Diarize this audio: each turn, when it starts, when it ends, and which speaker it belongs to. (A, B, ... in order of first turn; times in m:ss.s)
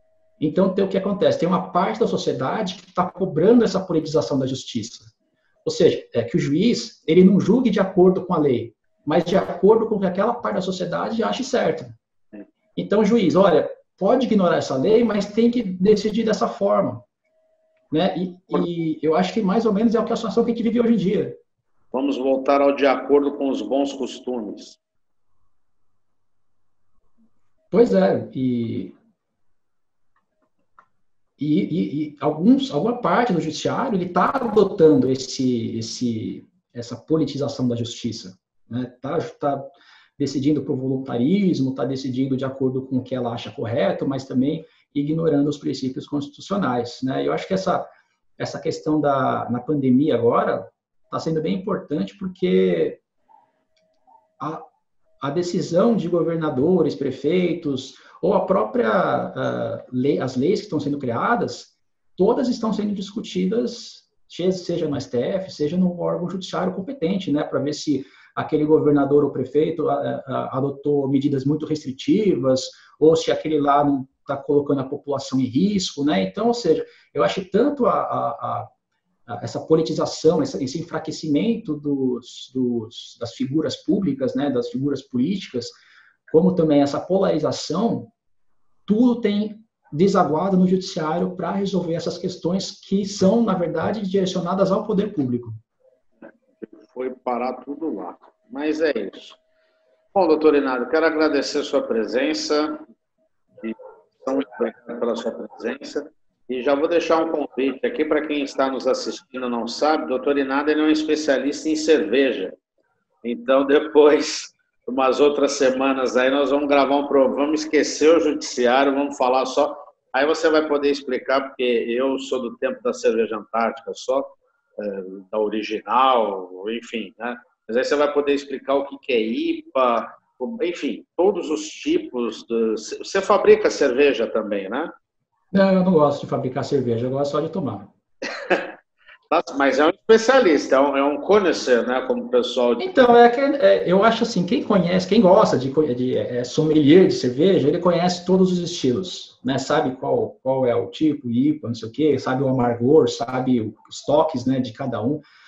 0:00.4-0:05.1 A
0:05.6-0:11.9 A
0:12.8-0:17.0 A
0:17.9-0:21.4 A
0:21.9-0:24.8 B
0:27.7-0:28.9 A
0:31.4-0:39.6 A
0:40.2-0:53.0 A
0:54.4-0:54.6 A
0:55.2-1:18.7 A
1:19.3-1:25.7 A
1:26.3-1:28.1 A
1:28.9-1:35.6 A
1:36.6-1:39.4 B
1:40.1-1:42.8 B
1:43.6-1:52.6 B
1:53.2-2:14.9 B
2:15.5-2:17.9 A
2:18.3-2:18.7 B
2:19.3-2:22.9 B
2:22.8-2:35.2 A